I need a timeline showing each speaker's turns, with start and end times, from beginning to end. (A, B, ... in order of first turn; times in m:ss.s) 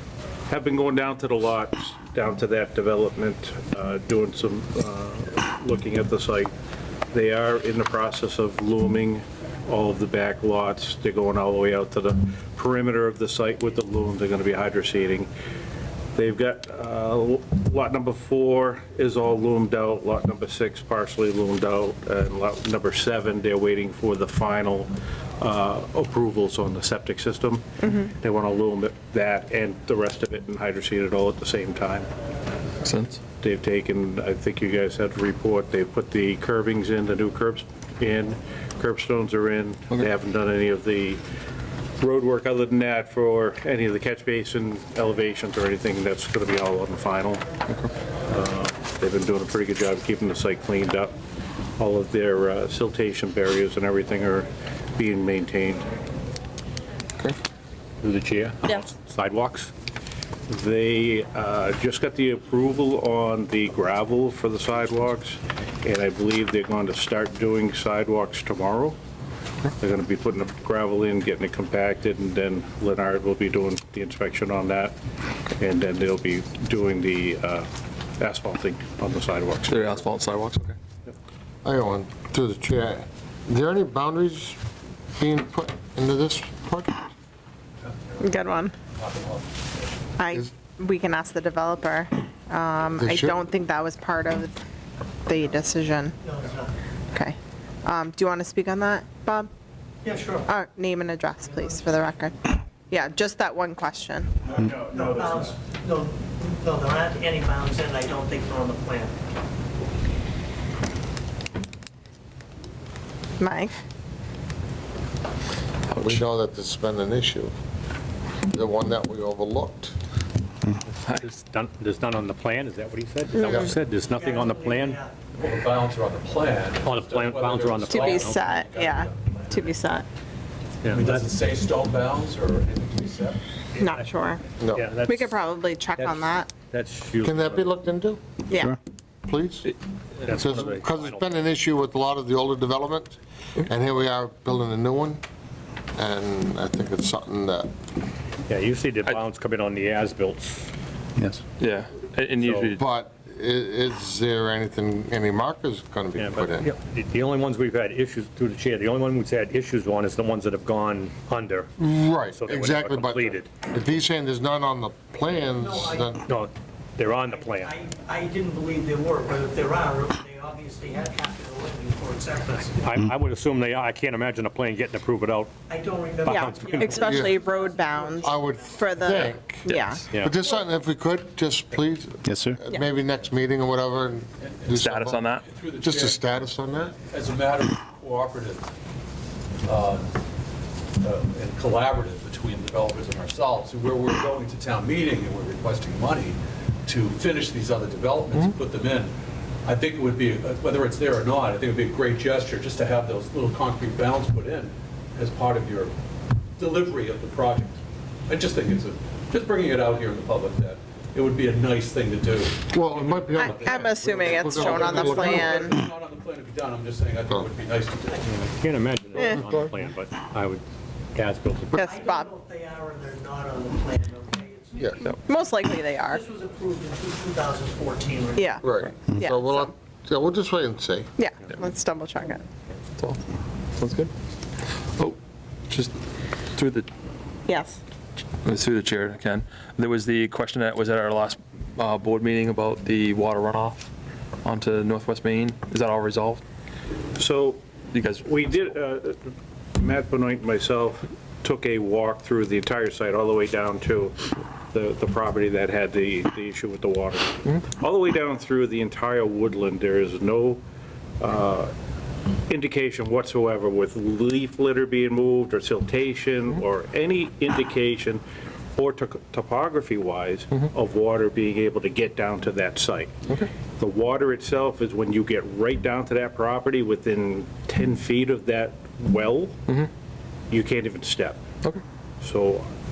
0:00.5-0:06.5 A
0:07.1-0:15.3 A
0:16.1-0:32.1 A
0:27.8-0:28.1 B
0:32.8-0:33.2 C
0:33.4-0:41.2 A
0:42.0-0:47.4 A
0:48.3-0:51.1 A
0:51.8-0:55.9 A
0:58.0-0:59.7 D
1:00.5-1:09.0 A
1:09.8-1:15.0 A
1:15.6-1:20.1 A
1:19.7-1:20.7 C
1:21.6-1:24.6 E
1:25.1-1:27.1 E
1:27.8-1:28.3 F
1:28.2-1:28.7 B
1:28.9-1:29.7 F
1:30.2-1:34.6 B
1:33.0-1:33.5 E
1:35.2-1:36.2 B
1:36.2-1:36.7 G
1:37.1-1:39.5 B
1:40.0-1:40.5 G
1:40.5-1:44.5 B
1:41.4-1:42.0 G
1:44.6-1:45.3 A
1:44.8-1:49.2 G
1:53.4-1:53.7 B
1:55.9-1:56.2 C
1:56.0-1:57.5 E
1:58.5-1:59.9 E
2:00.9-2:05.0 D
2:03.4-2:03.7 B
2:03.9-2:05.2 G
2:05.3-2:09.9 F
2:06.8-2:08.4 D
2:07.9-2:10.0 B
2:10.8-2:11.3 D
2:10.8-2:13.4 F
2:13.8-2:14.4 B
2:13.8-2:15.4 D
2:14.6-2:14.9 E
2:15.1-2:16.5 B
2:15.9-2:17.8 D
2:17.2-2:18.2 E
2:18.5-2:18.8 B
2:19.2-2:19.7 E
2:20.2-2:21.3 D
2:20.3-2:25.2 E
2:25.9-2:27.7 E
2:28.5-2:30.7 D
2:31.6-2:32.8 C
2:32.4-2:32.7 D
2:32.8-2:36.7 E
2:36.2-2:41.7 D
2:41.8-2:46.2 E
2:42.2-2:43.7 D
2:45.4-2:46.2 G
2:46.2-2:47.7 D
2:47.2-2:53.0 G
2:52.8-2:55.5 D
2:55.7-2:59.4 G
2:56.2-2:57.2 D
2:56.2-3:00.0 B
2:57.0-2:57.4 E
2:58.2-3:05.3 E
3:00.1-3:00.4 D
3:04.4-3:08.7 F
3:04.7-3:05.4 C
3:05.8-3:06.9 E
3:09.6-3:10.2 F
3:11.0-3:19.1 F
3:19.6-3:25.9 F
3:26.6-3:38.3 F
3:32.7-3:35.6 E
3:33.4-3:35.7 B
3:38.0-3:38.4 G
3:38.2-3:40.6 D
3:41.1-3:41.8 D
3:41.7-3:42.3 B
3:41.7-3:45.2 G
3:45.2-3:46.2 B
3:46.0-3:48.6 G
3:48.4-3:49.7 B
3:48.6-3:51.1 E
3:51.2-3:52.4 B
3:53.8-3:54.1 C
3:55.7-3:56.9 C
3:57.5-3:57.8 B
3:58.4-4:03.9 C
4:04.4-4:06.4 C
4:07.1-4:07.6 A
4:07.9-4:08.4 C
4:08.2-4:09.2 A
4:09.8-4:20.6 A
4:21.2-4:21.7 A
4:22.5-4:28.2 A
4:28.8-4:33.1 A
4:33.8-4:39.6 A
4:40.5-4:41.4 A
4:42.2-4:42.7 A